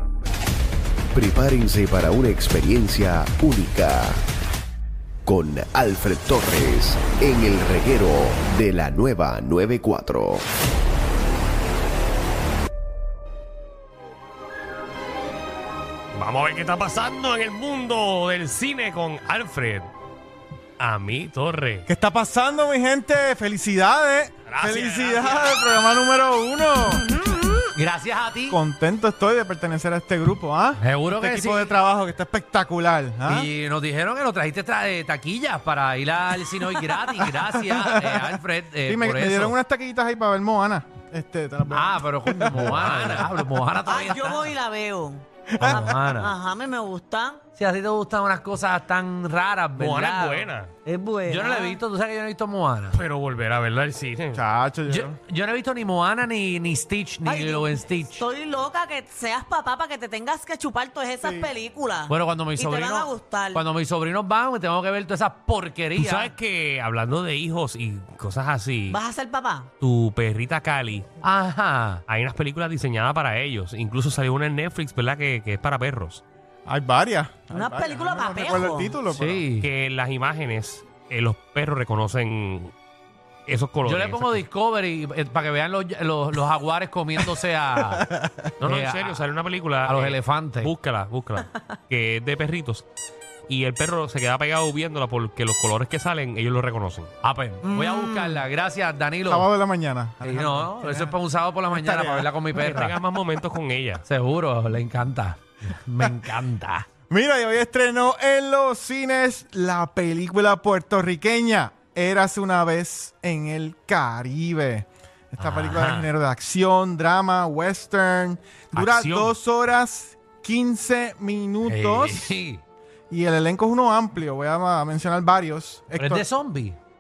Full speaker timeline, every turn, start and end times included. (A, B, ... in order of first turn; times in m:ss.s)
0:01.1-0:04.2 A
0:05.2-0:10.4 A
0:16.1-0:19.9 B
0:20.8-0:21.9 B
0:21.8-0:27.1 C
0:24.5-0:25.8 B
0:27.7-0:28.6 D
0:28.5-0:33.5 C
0:30.8-0:31.7 D
0:33.2-0:39.6 D
0:37.1-0:43.3 C
0:41.7-0:44.4 D
0:42.7-0:43.2 B
0:43.8-0:47.4 E
0:44.0-0:44.4 B
0:45.5-0:45.8 C
0:45.6-0:46.3 D
0:47.6-0:50.5 D
0:49.8-0:50.7 B
0:50.8-0:51.8 E
0:51.3-0:53.0 D
0:52.9-0:54.4 B
0:54.3-0:55.2 C
0:54.9-0:58.2 D
0:57.2-1:03.6 E
1:01.2-1:01.5 C
1:02.1-1:06.3 D
1:06.0-1:09.0 B
1:08.9-1:09.7 E
1:09.8-1:11.1 B
1:11.2-1:12.0 D
1:12.1-1:16.2 B
1:16.6-1:19.5 C
1:17.5-1:19.0 E
1:19.1-1:19.7 D
1:19.6-1:22.7 B
1:23.5-1:24.4 B
1:23.8-1:28.1 D
1:27.9-1:28.5 C
1:28.6-1:32.8 B
1:28.6-1:29.3 D
1:29.8-1:30.7 D
1:33.5-1:37.1 B
1:37.2-1:39.5 D
1:37.8-1:38.2 E
1:39.2-1:41.2 C
1:40.2-1:42.9 D
1:41.7-1:42.9 C
1:42.6-1:44.0 B
1:44.0-1:46.8 D
1:47.1-2:02.4 C
1:55.4-1:56.1 D
1:55.8-1:56.0 B
1:58.7-1:59.4 B
2:01.6-2:02.6 D
2:03.1-2:06.3 C
2:05.9-2:06.8 D